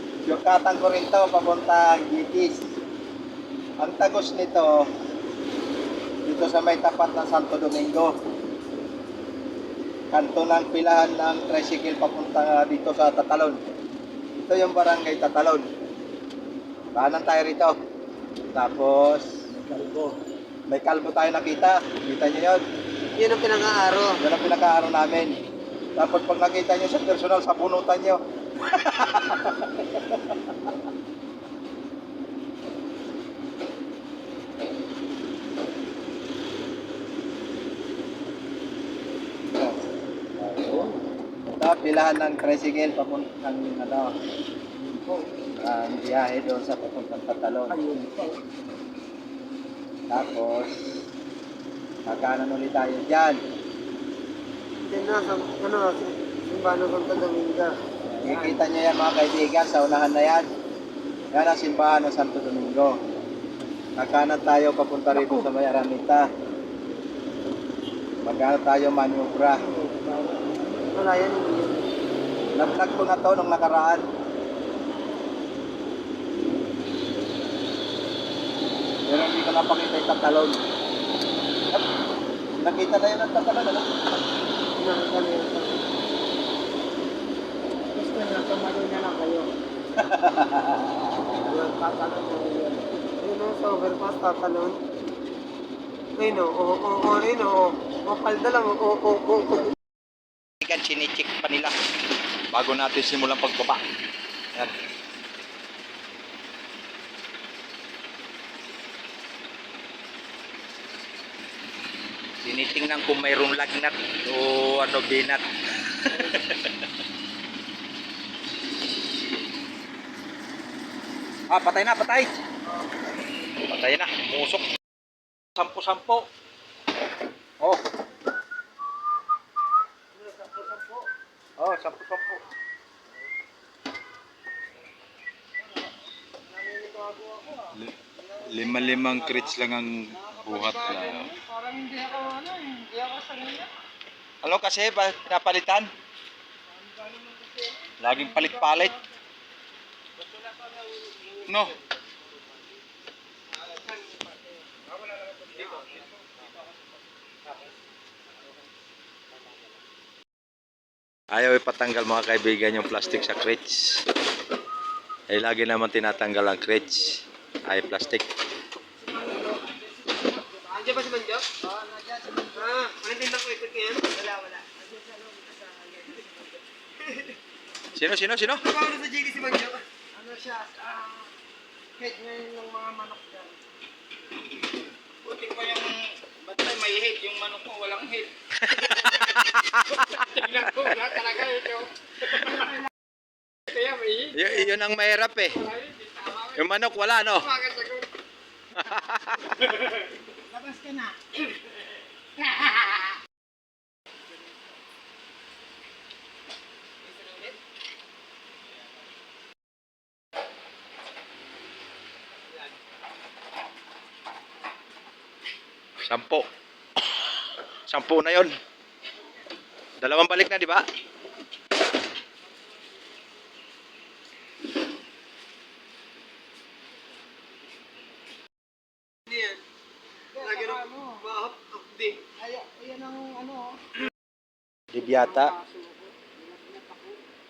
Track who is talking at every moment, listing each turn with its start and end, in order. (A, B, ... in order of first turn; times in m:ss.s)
0:00.2-0:02.6 A
0:03.8-0:04.7 A
0:06.2-0:08.1 A
0:10.1-0:13.6 A
0:14.5-0:15.6 A
0:16.9-0:17.8 A
0:18.5-0:19.3 A
0:19.7-0:20.1 B
0:20.7-0:22.6 A
0:23.2-0:24.2 C
0:24.2-0:25.4 A
0:26.0-0:30.0 A
0:40.4-0:40.9 A
0:41.6-0:44.2 A
0:45.6-0:47.8 A
0:47.7-0:48.4 B
0:50.1-0:50.8 A
0:52.1-0:53.4 A
0:54.8-0:57.8 C
0:58.2-0:58.6 B
0:58.2-1:00.5 A
1:01.3-1:02.9 A
1:04.0-1:06.3 A
1:08.2-1:09.6 A
1:09.6-1:10.6 B
1:10.9-1:11.9 C
1:12.5-1:14.0 A
1:19.1-1:20.6 A
1:22.6-1:23.9 A
1:24.8-1:25.9 C
1:27.9-1:29.5 B
1:30.0-1:31.0 A
1:31.4-1:32.8 B
1:33.2-1:34.8 C
1:36.2-1:39.7 C
1:40.6-1:41.7 A
1:42.5-1:43.8 A
1:52.4-1:56.7 A
2:01.5-2:02.3 A
2:03.7-2:04.7 A
2:05.6-2:06.3 A
2:10.2-2:11.1 B
2:11.6-2:12.4 A
2:16.5-2:19.5 B
2:17.8-2:21.3 A
2:20.1-2:23.7 B
2:24.4-2:25.9 A
2:26.7-2:29.0 B
2:28.0-2:28.9 A
2:31.4-2:31.8 A
2:35.4-2:35.7 B
2:41.3-2:44.0 A
2:45.3-2:48.3 A
2:49.0-2:50.7 B
2:50.7-2:51.5 C
2:51.6-2:52.7 B
2:52.5-2:54.1 C
2:54.1-2:56.5 B
2:58.0-2:58.6 A
2:58.5-2:59.8 C
3:00.1-3:01.3 B
3:02.0-3:03.6 B
3:05.3-3:08.0 A
3:05.4-3:05.8 D
3:06.6-3:08.3 D
3:08.6-3:11.0 A
3:10.4-3:11.7 B
3:12.4-3:12.7 B
3:13.8-3:14.1 C
3:14.3-3:15.6 A
3:15.7-3:16.5 C
3:16.5-3:17.5 A
3:17.5-3:18.1 C
3:18.8-3:19.8 A
3:20.5-3:21.2 B
3:27.1-3:27.5 C
3:36.0-3:36.4 A
3:37.9-3:38.5 A
3:40.0-3:40.8 A
3:49.3-3:49.6 C
3:50.3-3:51.2 B
3:50.4-3:52.2 C
3:52.4-3:53.8 B
3:54.9-3:55.5 A
3:55.0-3:57.2 B